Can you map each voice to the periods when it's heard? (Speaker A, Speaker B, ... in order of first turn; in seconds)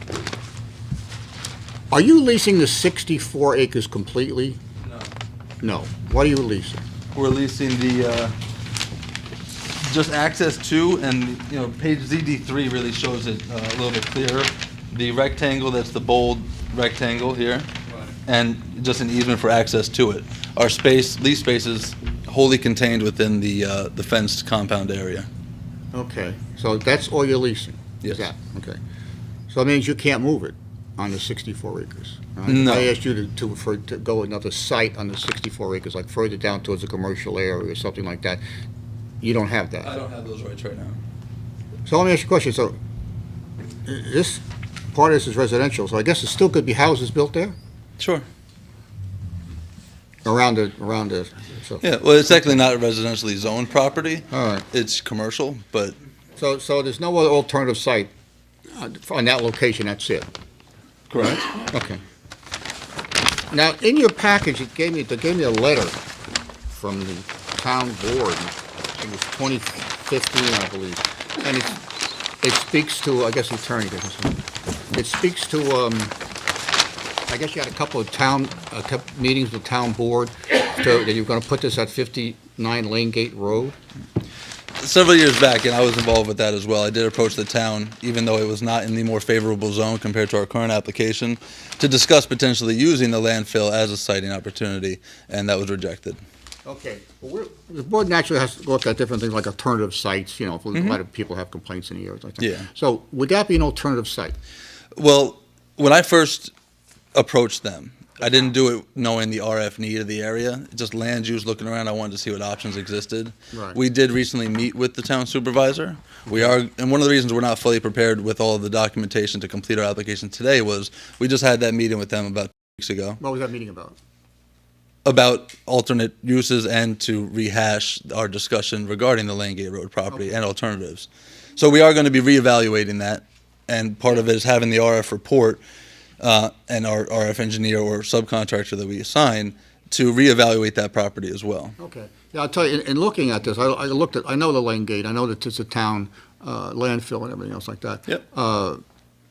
Speaker A: 1.9-4.6, 5.6-6.8, 25.9-28.8, 29.5-38.4, 39.2-39.9, 41.9-42.8, 43.9-47.6, 50.2-51.8, 54.3-54.6, 56.4-58.1, 58.7-60.3, 61.2-62.0, 63.5-66.0, 66.7-71.8, 72.4-74.4, 74.9-76.1, 77.3-83.8, 96.7-104.3, 113.5-113.8, 116.3-116.5, 123.2-124.0, 141.8-148.8
Speaker B: 4.8-5.1, 7.1-8.3, 9.8-17.7, 18.3-25.3, 28.0-28.3, 32.5-32.9, 39.8-41.0, 48.0-48.3, 51.8-56.0, 61.1-61.5, 84.8-96.2, 100.7-101.0, 102.4-102.7, 105.0-106.5, 107.1-123.2, 125.0-135.6, 136.2-141.8